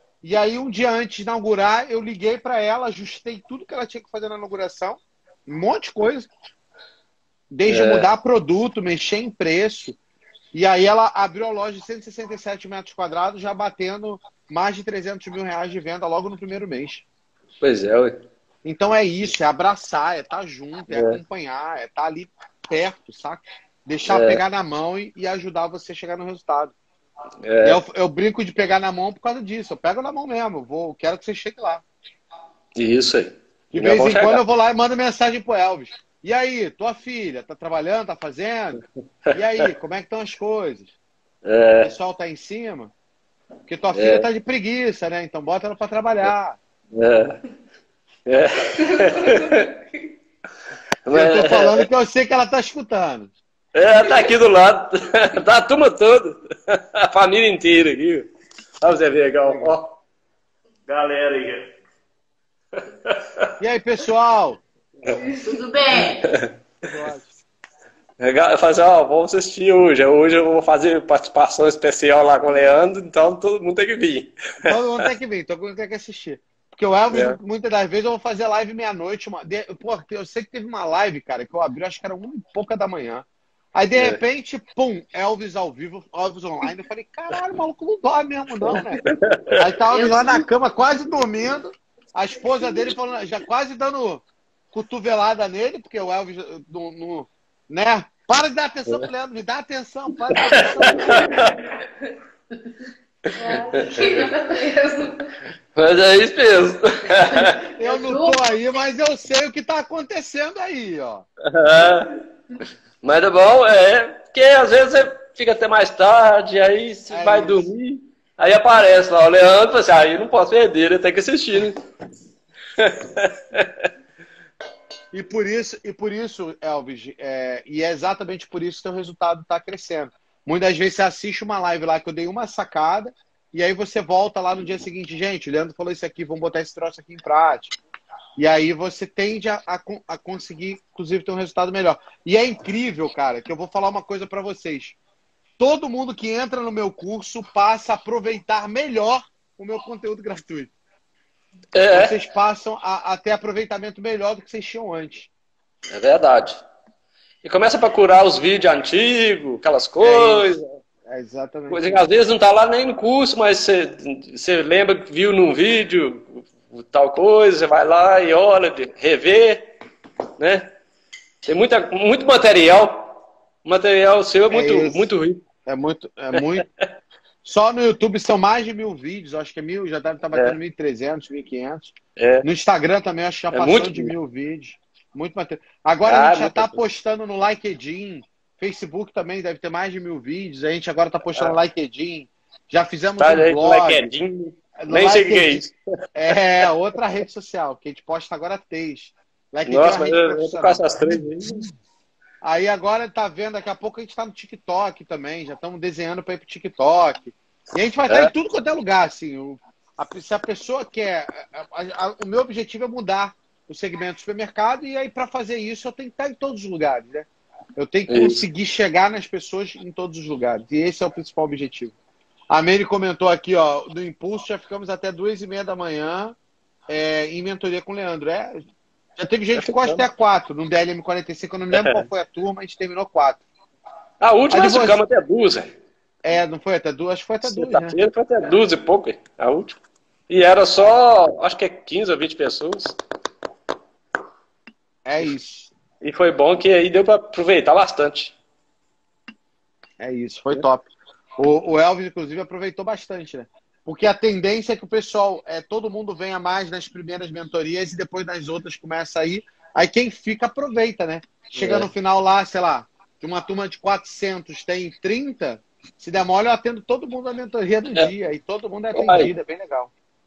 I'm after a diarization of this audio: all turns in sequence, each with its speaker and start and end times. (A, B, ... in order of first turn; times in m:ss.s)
0:00.2-0:06.3 A
0:07.5-0:10.0 A
0:07.7-0:08.1 B
0:10.5-0:17.0 A
0:17.6-0:18.2 B
0:18.6-0:26.7 A
0:20.9-0:21.2 B
0:24.1-0:24.4 B
0:27.4-0:27.8 B
0:27.6-0:31.8 A
0:32.8-0:34.4 B
0:33.7-0:40.9 A
0:41.4-0:41.9 B
0:41.8-0:42.9 A
0:43.7-0:46.6 A
0:43.9-0:44.3 B
0:46.9-0:47.4 B
0:48.3-0:49.7 B
0:49.0-0:49.7 C
0:51.1-0:51.9 B
0:51.1-0:53.3 A
0:53.8-0:58.3 B
0:58.8-1:00.0 B
0:59.4-0:59.8 A
1:00.9-1:01.7 B
1:02.7-1:03.5 B
1:03.6-1:04.6 A
1:05.2-1:06.3 C
1:06.0-1:06.5 B
1:06.8-1:07.4 A
1:08.2-1:15.0 B
1:14.6-1:29.0 A
1:17.1-1:17.4 B
1:28.6-1:29.6 B
1:29.6-1:41.4 A
1:29.9-1:30.4 C
1:40.3-1:41.7 B
1:43.4-1:45.3 C
1:43.4-1:44.2 B
1:45.8-1:47.6 B
1:47.3-1:48.4 C
1:47.8-1:51.2 A
1:51.5-1:52.2 B
1:53.0-2:01.8 B
1:57.1-1:57.7 A
2:02.8-2:03.9 B
2:05.1-2:17.8 A
2:18.4-2:25.0 A
2:25.6-2:30.7 A
2:31.7-2:32.2 B
2:31.9-2:35.3 A
2:35.9-2:36.6 B
2:37.4-2:40.7 B
2:40.0-2:40.6 A
2:41.1-2:42.0 A
2:41.7-2:49.6 B
2:50.4-2:50.7 B
2:51.4-2:53.1 B
2:53.6-2:55.5 B
2:54.5-2:55.1 A
2:55.7-2:56.7 A
2:56.4-2:56.9 B
2:57.4-3:14.1 A
3:02.2-3:02.5 B
3:03.5-3:04.1 B
3:06.0-3:06.8 B
3:13.2-3:15.8 B
3:14.8-3:15.6 A
3:16.2-3:20.8 A
3:19.7-3:21.6 B
3:22.4-3:42.0 A
3:38.1-3:38.4 B
3:42.5-3:46.4 A
3:46.9-3:48.6 A
3:49.2-3:53.4 A
3:49.6-3:50.0 B
3:51.7-3:52.0 B
3:54.2-3:55.7 B
3:54.5-3:55.0 A
3:56.2-3:58.0 A
3:57.4-4:03.0 B
4:05.0-4:05.7 A
4:06.0-4:08.4 B
4:10.0-4:29.9 A
4:21.6-4:21.9 B
4:29.0-4:29.3 B